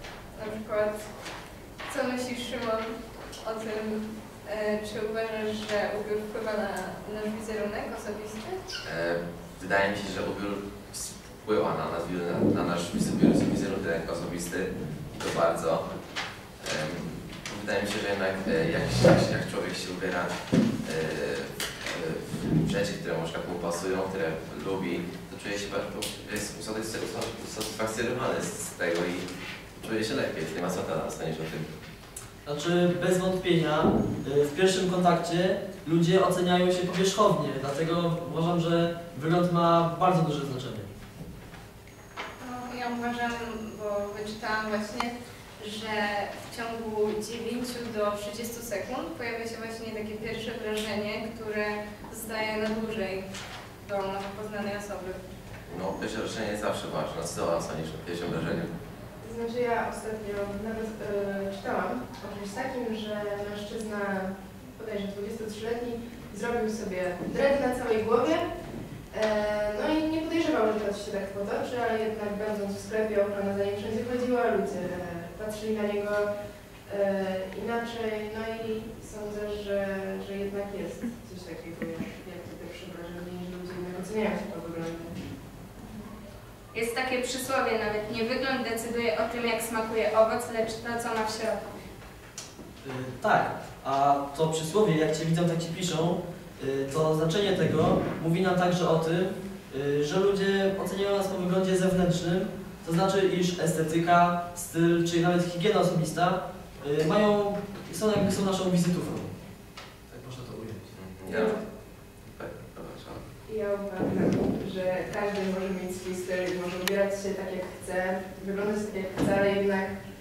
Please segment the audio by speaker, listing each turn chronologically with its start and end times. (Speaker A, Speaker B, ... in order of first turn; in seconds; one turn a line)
Speaker A: 0.3-0.9
Speaker A: 1.9-8.6
Speaker B: 8.8-15.9
Speaker B: 16.6-31.8
Speaker C: 32.4-40.9
Speaker A: 42.4-53.2
Speaker A: 53.8-55.2
Speaker B: 55.6-58.8
Speaker D: 59.2-68.4
Speaker D: 69.1-76.3
Speaker D: 76.8-85.2
Speaker A: 85.8-86.1
Speaker A: 86.7-91.7
Speaker C: 92.8-109.3
Speaker C: 110.1-110.9
Speaker B: 110.9-111.6
Speaker D: 111.3-111.6
Speaker B: 112.3-113.2
Speaker D: 113.5-119.9